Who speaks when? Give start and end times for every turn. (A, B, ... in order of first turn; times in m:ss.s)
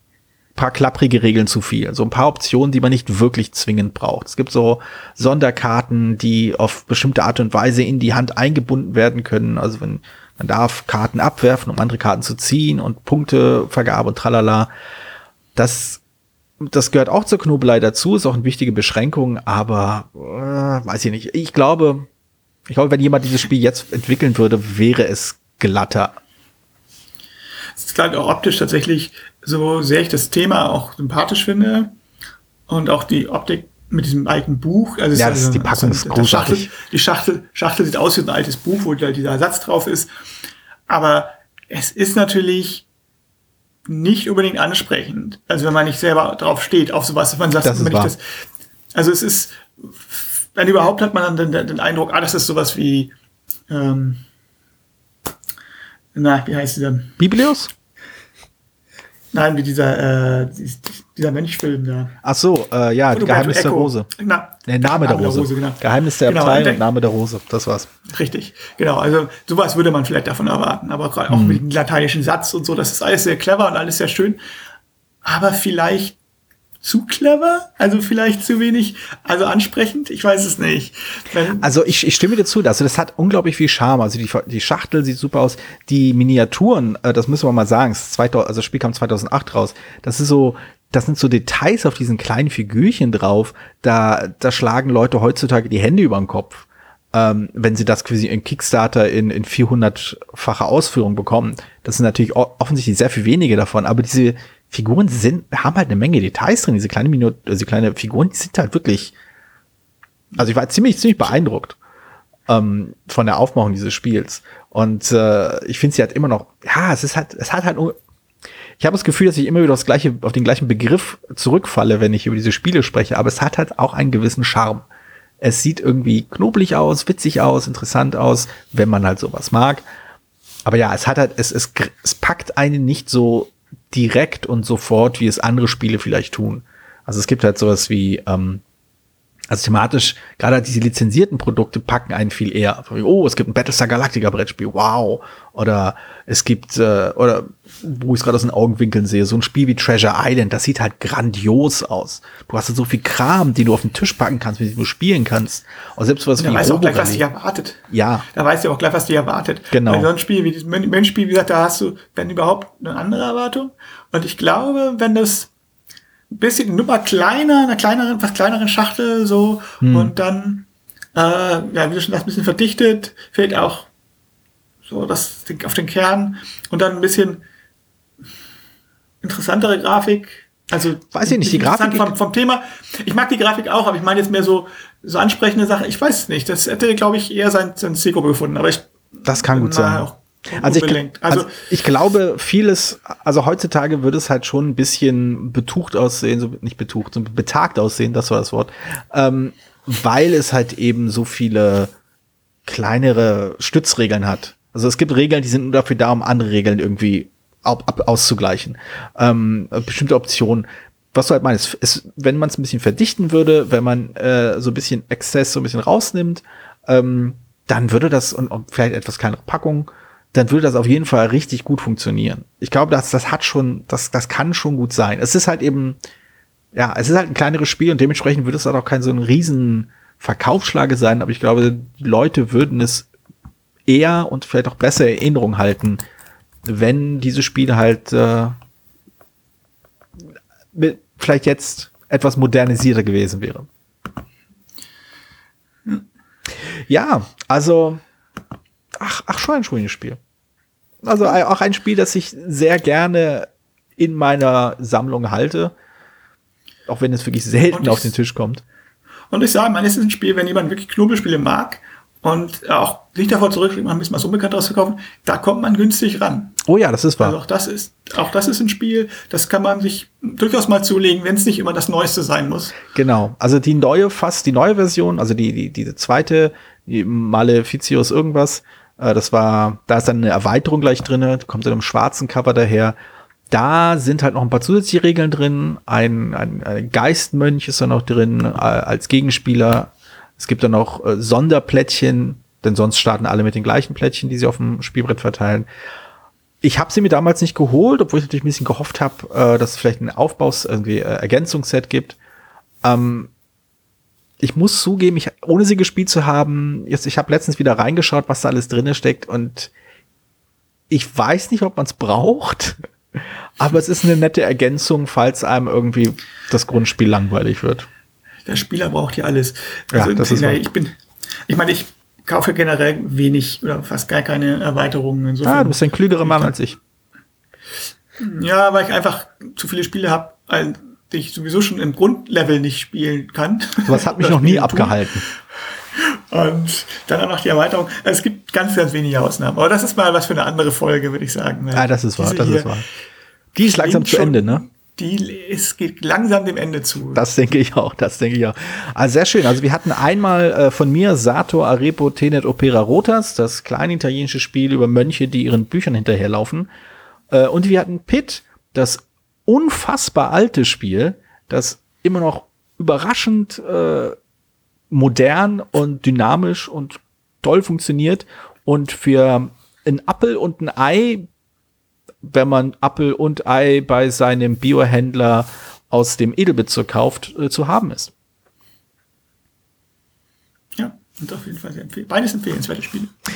0:00.5-0:14.7 A
0:15.6-0:16.0 A
0:16.6-0:22.1 A
0:22.7-0:26.2 A
0:27.8-0:31.9 B
0:32.7-0:40.1 B
0:35.2-0:36.7 A
0:40.9-0:42.8 B
0:43.9-0:48.2 B
0:47.6-0:48.1 A
0:48.9-0:53.1 B
0:53.7-0:54.2 B
0:56.1-0:57.2 B
0:57.2-0:57.7 A
0:59.3-1:02.2 B
1:02.2-1:04.1 A
1:03.1-1:06.8 B
1:04.6-1:07.9 A
1:08.1-1:14.4 B
1:11.3-1:11.6 A
1:15.2-1:16.2 B
1:16.8-1:21.7 B
1:21.6-1:49.1 A
1:50.3-1:51.8 A
1:52.5-1:58.0 A
1:58.8-2:04.8 A
2:05.4-2:09.8 A
2:10.6-2:18.6 A
2:19.5-2:37.2 A
2:36.4-2:45.5 B
2:37.9-2:38.2 A
2:39.7-2:40.1 A
2:46.3-2:53.9 B
2:49.8-2:50.1 A
2:54.8-2:57.4 B
2:59.2-3:11.7 B
3:01.1-3:02.1 A
3:09.2-3:21.9 A
3:22.6-3:46.0 A
3:46.7-3:53.1 A
3:53.9-3:56.0 A
3:56.6-3:58.6 A
4:00.7-4:03.7 A
4:06.6-4:08.0 A
4:09.0-4:10.2 A
4:11.0-4:15.7 A
4:16.9-4:18.6 A
4:17.7-4:18.1 B
4:19.3-4:26.6 B
4:26.6-4:27.4 A
4:27.2-4:32.8 B
4:32.9-4:43.0 A
4:43.5-4:55.7 A
4:56.6-5:02.2 A
5:02.8-5:03.3 A
5:04.4-5:09.7 A
5:10.9-5:17.9 A
5:18.5-5:20.9 B
5:19.9-5:20.6 A
5:21.5-5:26.5 B
5:25.4-5:26.8 A
5:28.2-5:35.0 B
5:33.8-5:35.2 A
5:36.0-5:42.7 B
5:41.7-5:42.9 A
5:43.5-5:44.6 A
5:43.6-5:47.2 B
5:47.1-5:56.7 A
5:57.3-6:04.2 A
6:04.9-6:11.3 A
6:12.2-6:18.1 A
6:20.8-6:23.1 B